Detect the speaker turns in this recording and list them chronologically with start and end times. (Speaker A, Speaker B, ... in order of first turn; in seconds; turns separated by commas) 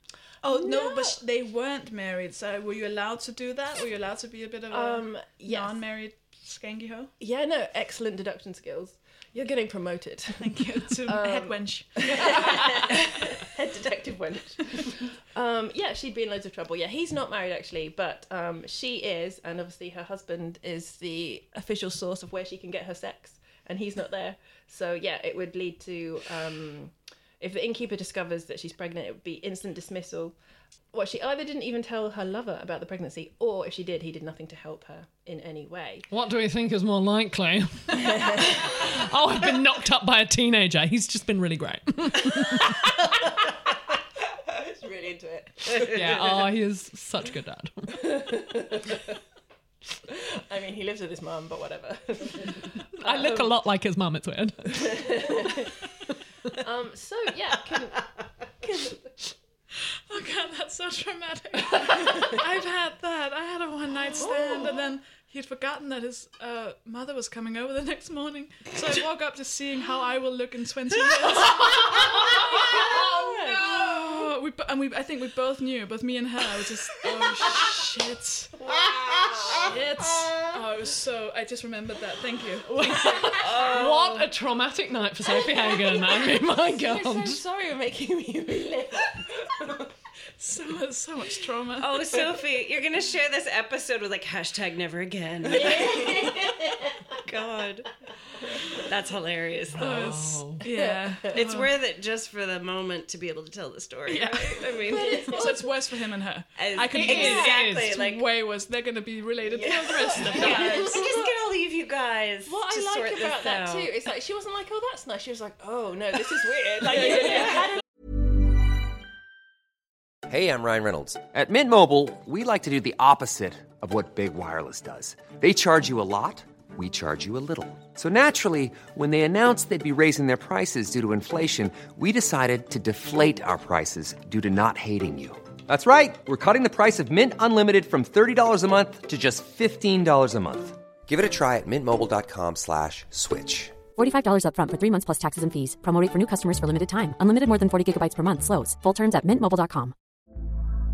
Speaker A: 0.4-7.1, Speaker B: 0.5-1.2, Speaker B: 4.7-5.8, Speaker B: 7.2-30.4, Speaker A: 10.4-13.2, Speaker B: 30.9-36.1, Speaker C: 36.1-42.9, Speaker B: 38.0-38.8, Speaker B: 42.6-43.6, Speaker B: 44.4-46.4, Speaker C: 45.8-48.0, Speaker B: 47.9-49.2, Speaker B: 50.1-53.6, Speaker C: 53.0-55.0, Speaker B: 54.7-55.8, Speaker B: 56.5-58.1, Speaker B: 58.6-59.1, Speaker A: 59.8-78.6, Speaker B: 64.2-64.9, Speaker B: 71.5-74.2, Speaker B: 78.7-79.7, Speaker A: 79.5-82.8, Speaker C: 82.7-87.4, Speaker D: 83.4-84.3, Speaker B: 85.4-89.9, Speaker A: 90.4-92.2, Speaker D: 91.8-96.3, Speaker B: 95.6-96.7, Speaker D: 97.2-97.9, Speaker D: 98.8-100.0, Speaker A: 99.8-101.7, Speaker C: 99.8-100.6, Speaker B: 100.6-101.3, Speaker D: 101.3-105.5, Speaker A: 104.1-111.0, Speaker B: 104.9-105.7, Speaker D: 106.5-108.2, Speaker C: 107.0-107.9, Speaker B: 109.5-111.3, Speaker D: 110.3-113.9, Speaker B: 112.5-117.7, Speaker E: 120.3-143.8, Speaker F: 144.0-149.9